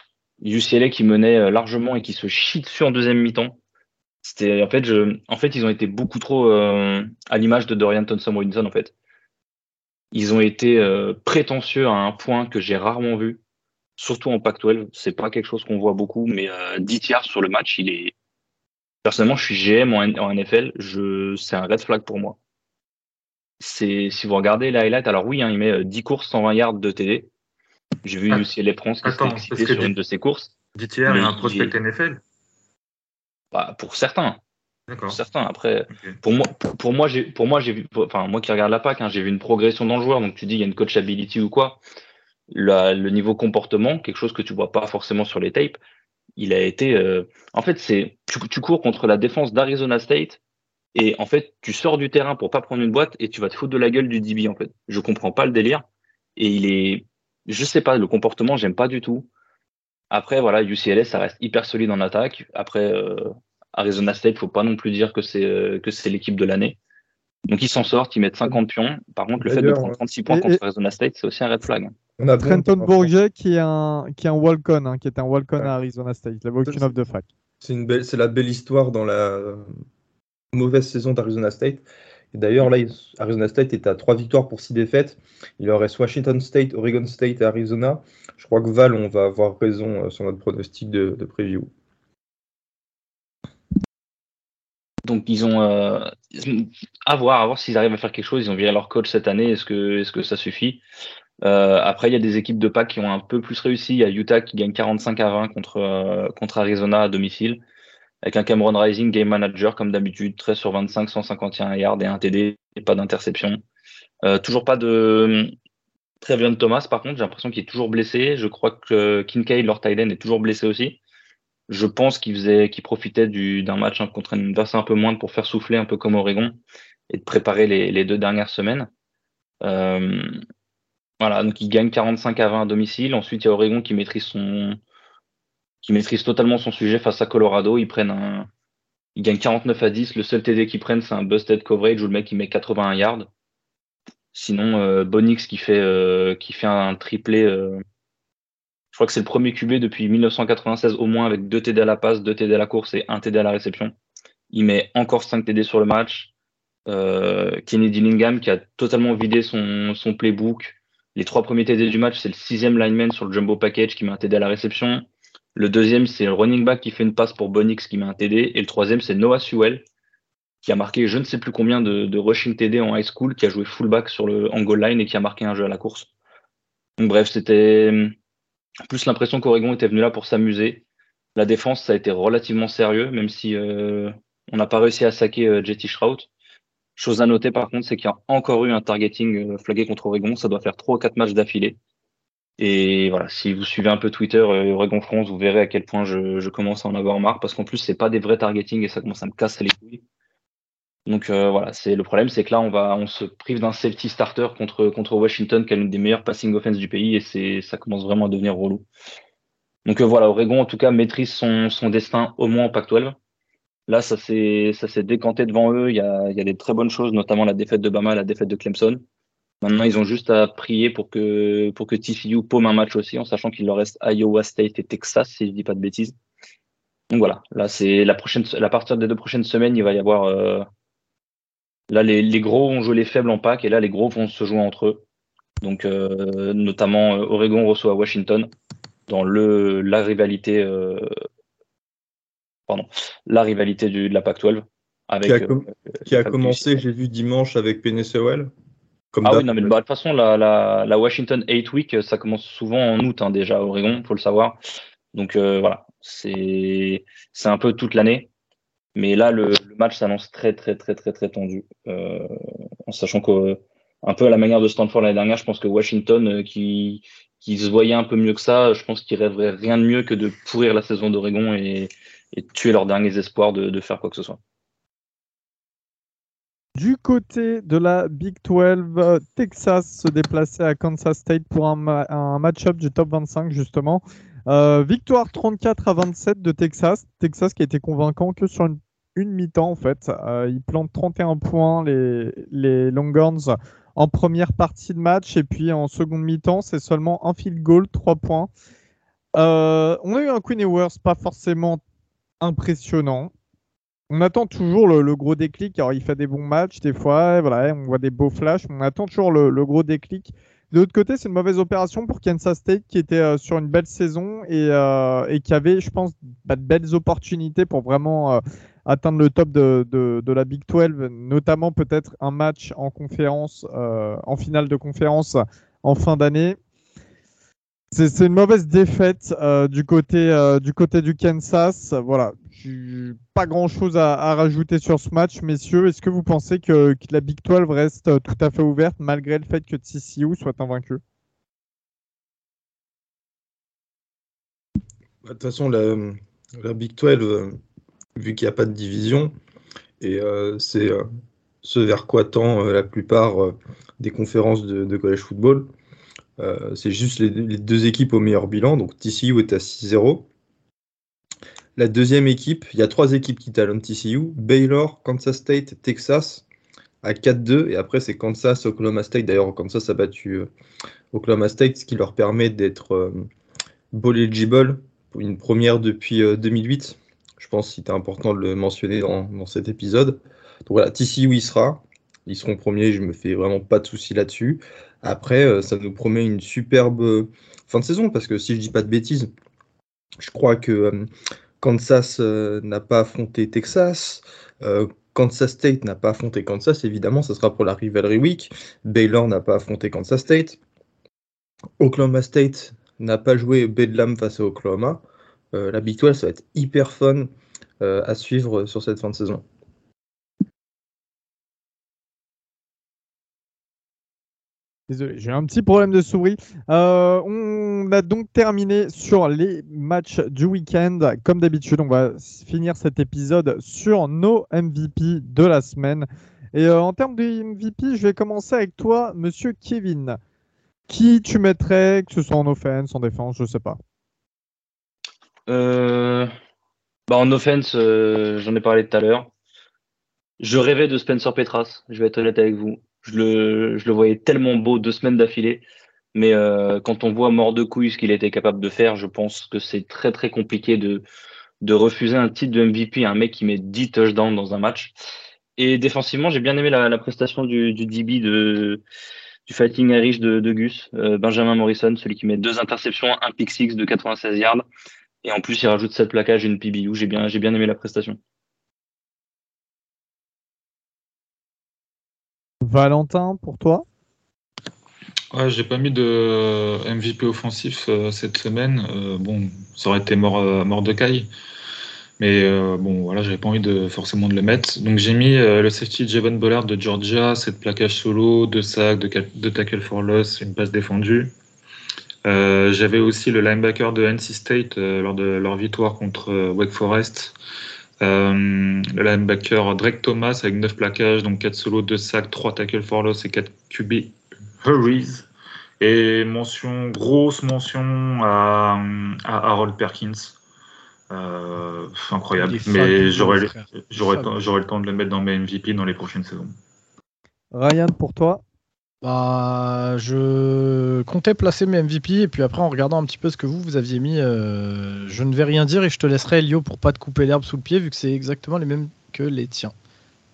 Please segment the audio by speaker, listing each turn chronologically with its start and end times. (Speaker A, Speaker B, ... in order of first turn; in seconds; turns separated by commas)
Speaker A: 0.4-3.6, Speaker A: 4.2-8.9, Speaker A: 10.1-13.4, Speaker A: 14.0-18.1, Speaker A: 19.0-22.4, Speaker A: 23.6-27.3, Speaker A: 28.0-30.5, Speaker B: 29.0-29.9, Speaker B: 30.8-32.2, Speaker A: 31.1-31.7, Speaker A: 33.5-34.4, Speaker B: 34.9-35.2, Speaker A: 35.1-41.8, Speaker A: 42.5-45.8, Speaker A: 46.4-50.4, Speaker A: 50.9-55.8, Speaker A: 56.4-59.3, Speaker A: 60.1-66.8, Speaker A: 67.5-71.9, Speaker C: 69.4-70.0, Speaker D: 70.3-70.6, Speaker C: 72.2-73.1, Speaker D: 72.4-77.3, Speaker C: 77.6-79.7, Speaker C: 80.5-91.7, Speaker A: 95.0-100.8, Speaker A: 101.4-107.6, Speaker A: 108.2-113.6, Speaker A: 114.2-115.5, Speaker A: 116.2-121.0, Speaker A: 121.7-126.6, Speaker A: 127.1-128.9, Speaker A: 129.6-130.3, Speaker A: 131.2-134.8, Speaker A: 135.8-138.5, Speaker A: 139.2-143.3, Speaker A: 144.3-147.8, Speaker A: 148.9-153.9, Speaker A: 154.5-156.3, Speaker A: 156.9-169.8, Speaker A: 170.6-176.1, Speaker A: 177.0-178.1, Speaker A: 178.9-180.8, Speaker A: 181.3-186.3, Speaker A: 187.0-191.8, Speaker A: 192.6-200.0, Speaker A: 201.1-208.9, Speaker A: 209.8-213.2, Speaker A: 213.9-219.0, Speaker A: 219.6-226.1, Speaker A: 227.1-230.7, Speaker A: 231.9-235.0, Speaker A: 235.6-238.5, Speaker A: 239.1-241.1, Speaker A: 242.7-246.7, Speaker C: 245.2-248.5, Speaker C: 249.1-249.7, Speaker A: 249.2-254.6, Speaker A: 255.1-258.3, Speaker A: 258.9-262.3, Speaker A: 262.9-274.4, Speaker D: 276.8-298.5, Speaker D: 299.4-301.8, Speaker D: 302.4-303.3, Speaker D: 304.1-326.6, Speaker D: 327.9-341.0, Speaker C: 345.2-347.6, Speaker C: 348.1-349.3, Speaker C: 350.0-351.0, Speaker C: 351.6-355.7, Speaker C: 356.4-360.3, Speaker C: 361.8-366.4, Speaker C: 367.0-370.5, Speaker C: 371.1-373.2, Speaker C: 373.9-389.3, Speaker C: 390.2-391.1, Speaker C: 391.6-400.6, Speaker C: 401.8-407.3, Speaker C: 407.8-409.4, Speaker D: 414.9-430.2, Speaker D: 430.9-433.8, Speaker A: 435.5-436.3, Speaker A: 437.1-439.3, Speaker A: 440.4-451.0, Speaker A: 451.6-454.9, Speaker A: 455.6-458.8, Speaker A: 459.4-464.6, Speaker A: 465.2-468.2, Speaker D: 472.6-473.8, Speaker B: 475.3-481.3, Speaker B: 482.2-491.3, Speaker B: 492.2-497.3, Speaker B: 498.0-505.3, Speaker B: 505.8-510.4, Speaker B: 511.1-516.5, Speaker E: 512.4-514.3, Speaker D: 517.5-518.4, Speaker E: 519.0-529.7